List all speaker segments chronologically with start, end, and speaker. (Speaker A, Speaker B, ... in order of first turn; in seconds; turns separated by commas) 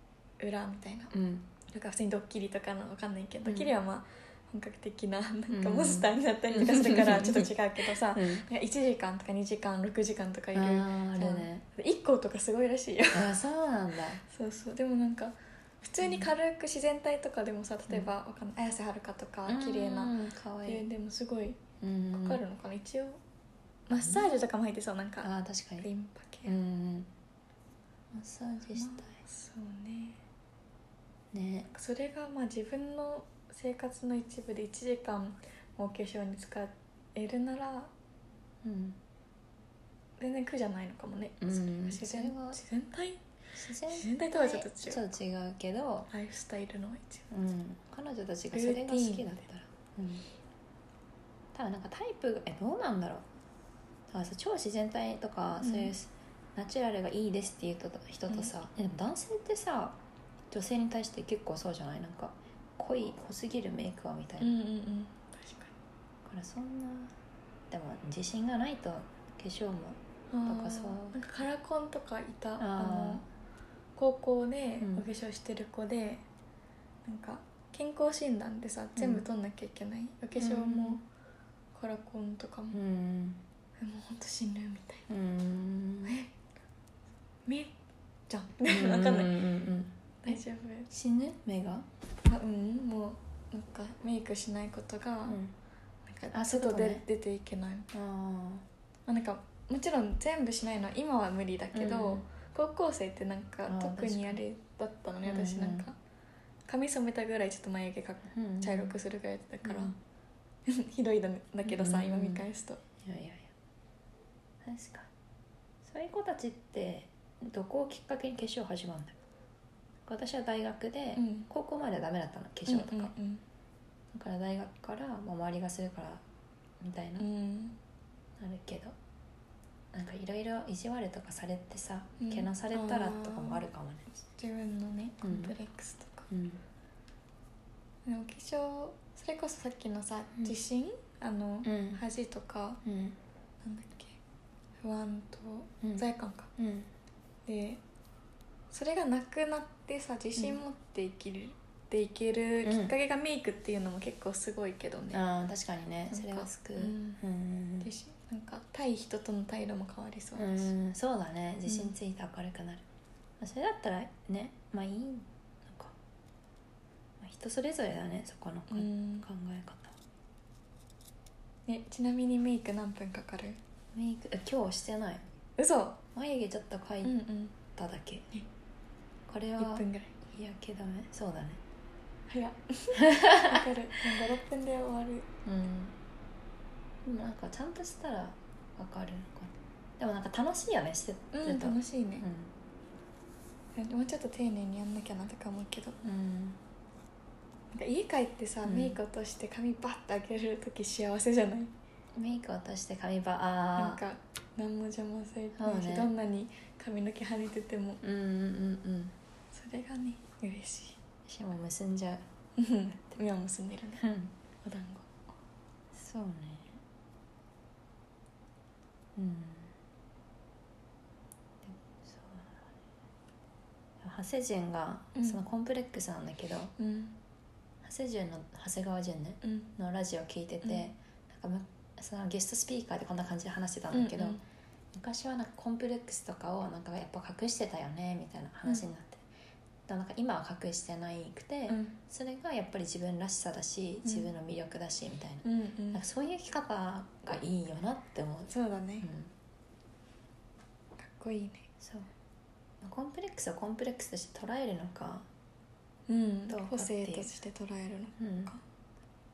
Speaker A: 0.4-1.1, Speaker B: 1.1-1.5, Speaker A: 1.7-13.3, Speaker B: 3.4-3.7, Speaker B: 5.5-8.4, Speaker B: 10.5-11.6, Speaker B: 13.1-14.2, Speaker A: 14.2-21.6, Speaker B: 19.5-20.8, Speaker B: 21.8-22.4, Speaker A: 22.1-23.2, Speaker A: 23.9-26.5, Speaker B: 23.9-24.3, Speaker B: 25.2-25.9, Speaker B: 26.4-27.1, Speaker B: 28.1-29.1, Speaker A: 28.7-30.2, Speaker B: 31.3-31.7, Speaker A: 31.7-37.9, Speaker B: 38.6-39.0, Speaker A: 40.2-43.2, Speaker B: 41.4-42.6, Speaker B: 43.5-46.1, Speaker A: 43.9-45.0, Speaker A: 46.1-47.3, Speaker B: 47.3-50.2, Speaker A: 48.5-49.3, Speaker B: 51.5-53.2, Speaker B: 54.1-60.0, Speaker A: 55.6-55.9, Speaker B: 60.5-64.5, Speaker A: 64.4-65.7, Speaker B: 66.2-67.1, Speaker B: 67.7-71.2, Speaker A: 70.3-73.2, Speaker B: 72.6-73.2, Speaker A: 74.0-76.2, Speaker B: 74.8-75.0, Speaker A: 77.0-81.0, Speaker B: 79.0-79.2, Speaker B: 80.4-81.0, Speaker A: 81.7-82.8, Speaker B: 82.7-83.4, Speaker A: 83.8-85.1, Speaker B: 85.1-86.2, Speaker A: 86.0-86.3, Speaker A: 87.5-87.7, Speaker A: 88.3-89.4, Speaker B: 88.7-91.9, Speaker A: 90.2-90.9, Speaker A: 92.2-95.4, Speaker B: 95.3-95.5, Speaker A: 96.1-97.9, Speaker B: 96.3-97.0, Speaker B: 97.9-98.6, Speaker A: 99.1-106.0, Speaker B: 101.7-102.2, Speaker B: 103.7-104.4, Speaker B: 105.2-105.8, Speaker A: 106.7-109.9, Speaker B: 108.3-108.9, Speaker B: 109.6-110.0, Speaker A: 110.7-112.8, Speaker B: 111.6-112.4, Speaker B: 113.0-113.5, Speaker B: 114.6-115.1, Speaker B: 115.8-119.2, Speaker B: 120.0-123.1, Speaker A: 121.2-121.5, Speaker A: 122.7-123.4, Speaker B: 124.1-126.2, Speaker B: 126.8-127.3, Speaker A: 127.2-127.8, Speaker B: 128.4-128.9, Speaker B: 129.9-134.1, Speaker A: 132.2-133.6, Speaker A: 134.3-136.3, Speaker B: 135.2-135.5, Speaker B: 136.3-136.6, Speaker A: 138.1-142.8, Speaker B: 141.6-142.0, Speaker B: 142.8-143.2, Speaker A: 143.6-144.2, Speaker A: 144.8-146.5, Speaker B: 146.6-146.9, Speaker A: 147.4-147.8, Speaker A: 148.7-155.2, Speaker B: 152.6-152.9, Speaker B: 155.1-157.9, Speaker A: 156.1-157.2, Speaker A: 157.8-160.7, Speaker B: 160.4-162.8, Speaker A: 161.7-161.9, Speaker B: 163.4-165.9, Speaker B: 167.2-170.0, Speaker A: 168.7-169.2, Speaker A: 171.7-173.6, Speaker B: 173.9-175.2, Speaker A: 175.6-176.0, Speaker B: 176.1-177.1, Speaker A: 177.0-177.5, Speaker B: 177.8-178.2, Speaker B: 179.3-181.6, Speaker A: 179.6-180.1, Speaker A: 182.3-185.3, Speaker B: 183.0-183.6, Speaker B: 185.4-185.9, Speaker B: 187.0-192.5, Speaker A: 191.3-192.2, Speaker A: 193.8-196.0, Speaker B: 196.0-196.6, Speaker A: 197.7-201.7, Speaker B: 198.6-198.9, Speaker B: 202.2-204.0, Speaker A: 203.8-208.0, Speaker B: 205.6-206.1, Speaker B: 208.0-209.1, Speaker A: 209.5-211.0, Speaker B: 211.2-212.2, Speaker A: 212.6-214.1, Speaker B: 214.0-214.3, Speaker A: 214.6-215.1, Speaker B: 215.9-216.8, Speaker B: 219.2-219.7, Speaker B: 221.6-222.7, Speaker B: 224.0-226.7, Speaker A: 225.1-225.4, Speaker A: 226.8-227.2, Speaker B: 227.8-234.4, Speaker A: 229.4-229.7, Speaker A: 230.6-230.9, Speaker A: 233.9-234.4, Speaker B: 234.9-239.2, Speaker B: 239.9-248.5, Speaker A: 241.7-242.0, Speaker A: 244.0-244.3, Speaker A: 245.4-246.0, Speaker A: 248.5-249.1, Speaker B: 249.0-249.3, Speaker A: 251.0-251.7, Speaker B: 251.8-252.1, Speaker B: 252.8-255.3, Speaker A: 256.1-258.6, Speaker B: 256.5-257.3, Speaker B: 258.2-258.5